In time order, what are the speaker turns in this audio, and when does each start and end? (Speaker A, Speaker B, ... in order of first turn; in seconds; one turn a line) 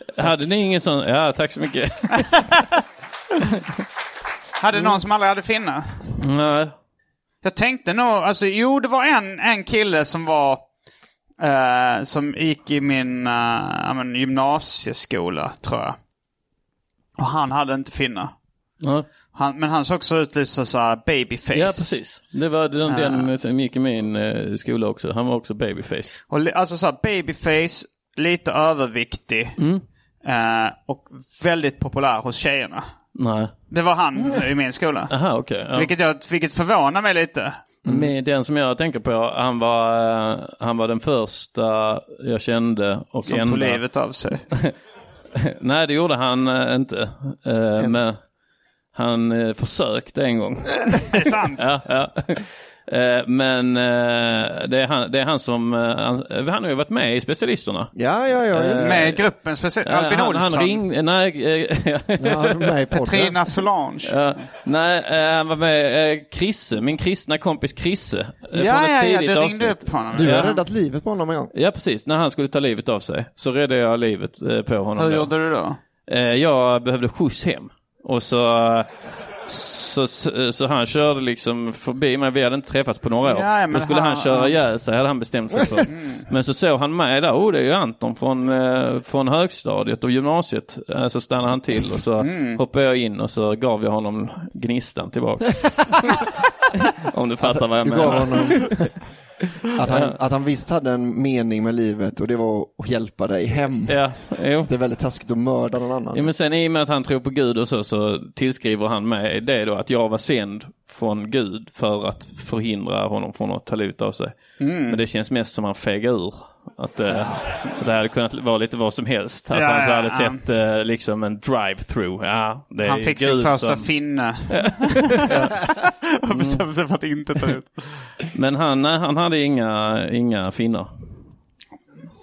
Speaker A: 0.1-2.6
Speaker B: 4.6-5.9
Speaker A: 6.2-6.7
Speaker B: 7.4-10.6
Speaker B: 11.4-16.0
Speaker B: 17.2-18.3
Speaker B: 19.3-22.0
Speaker A: 21.5-26.1
Speaker B: 22.9-23.3
Speaker B: 26.3-29.6
Speaker A: 29.6-29.8
Speaker B: 30.2-32.9
Speaker A: 33.1-33.5
Speaker B: 33.7-35.1
Speaker A: 35.1-35.9
Speaker B: 35.7-37.6
Speaker C: 37.9-38.1
Speaker A: 37.9-43.8
Speaker B: 43.2-44.4
Speaker A: 45.4-48.2
Speaker A: 48.9-57.9
Speaker B: 51.1-51.6
Speaker C: 57.9-59.1
Speaker A: 58.5-59.2
Speaker B: 58.8-60.8
Speaker A: 59.8-62.7
Speaker C: 62.2-63.4
Speaker B: 62.9-64.2
Speaker A: 64.0-70.6
Speaker B: 68.5-70.6
Speaker C: 70.1-71.5
Speaker A: 71.5-75.3
Speaker B: 75.0-75.8
Speaker A: 76.1-78.9
Speaker A: 79.4-98.9
Speaker B: 83.2-84.5
Speaker B: 85.9-86.3
Speaker B: 92.2-92.6
Speaker C: 97.4-99.0
Speaker C: 99.7-104.0
Speaker A: 99.9-100.2
Speaker A: 103.9-104.7
Speaker C: 104.6-106.3
Speaker A: 106.1-123.9
Speaker B: 114.6-115.0
Speaker B: 119.5-120.4
Speaker B: 122.8-128.1
Speaker A: 124.5-125.7
Speaker A: 126.3-126.6
Speaker A: 128.3-130.9